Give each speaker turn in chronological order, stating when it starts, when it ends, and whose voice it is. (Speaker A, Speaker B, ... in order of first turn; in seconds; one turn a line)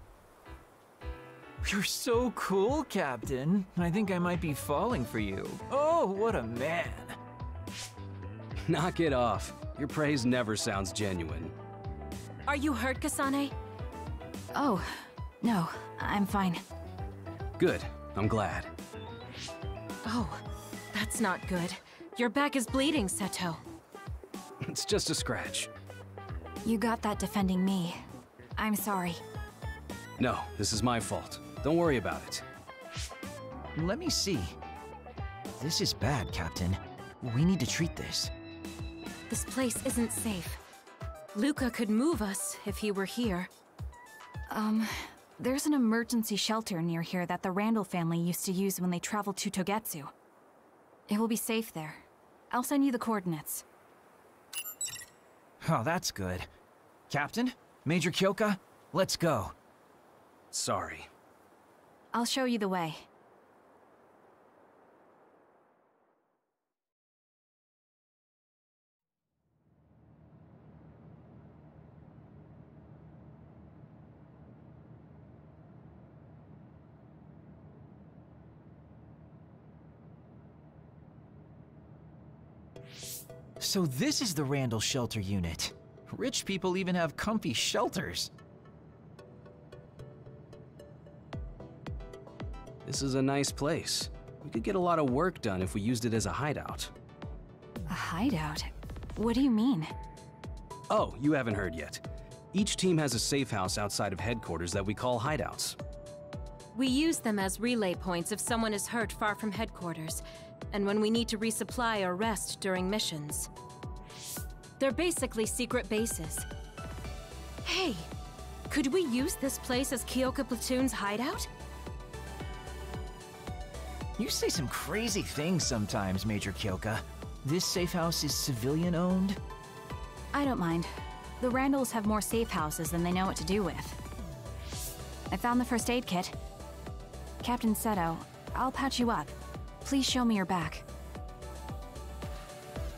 Speaker A: 1.6-7.2
Speaker B: 8.7-11.5
Speaker C: 12.4-13.5
Speaker D: 14.5-16.6
Speaker B: 17.6-18.7
Speaker C: 20.0-20.4
Speaker C: 20.9-23.6
Speaker B: 24.6-25.7
Speaker D: 26.6-28.0
Speaker D: 28.6-29.2
Speaker B: 30.2-32.4
Speaker A: 33.7-34.5
Speaker A: 35.6-38.3
Speaker C: 39.3-40.6
Speaker C: 41.3-43.5
Speaker D: 44.5-50.1
Speaker D: 51.1-53.6
Speaker A: 55.6-56.5
Speaker A: 57.1-59.5
Speaker B: 60.5-61.1
Speaker D: 62.1-63.0
Speaker A: 83.6-88.3
Speaker B: 92.8-96.9
Speaker D: 97.9-99.9
Speaker B: 100.9-105.8
Speaker C: 106.7-113.5
Speaker C: 114.8-116.5
Speaker C: 117.6-118.1
Speaker C: 118.7-121.5
Speaker A: 124.2-129.4
Speaker D: 130.3-134.0
Speaker D: 135.3-136.3
Speaker D: 137.4-140.8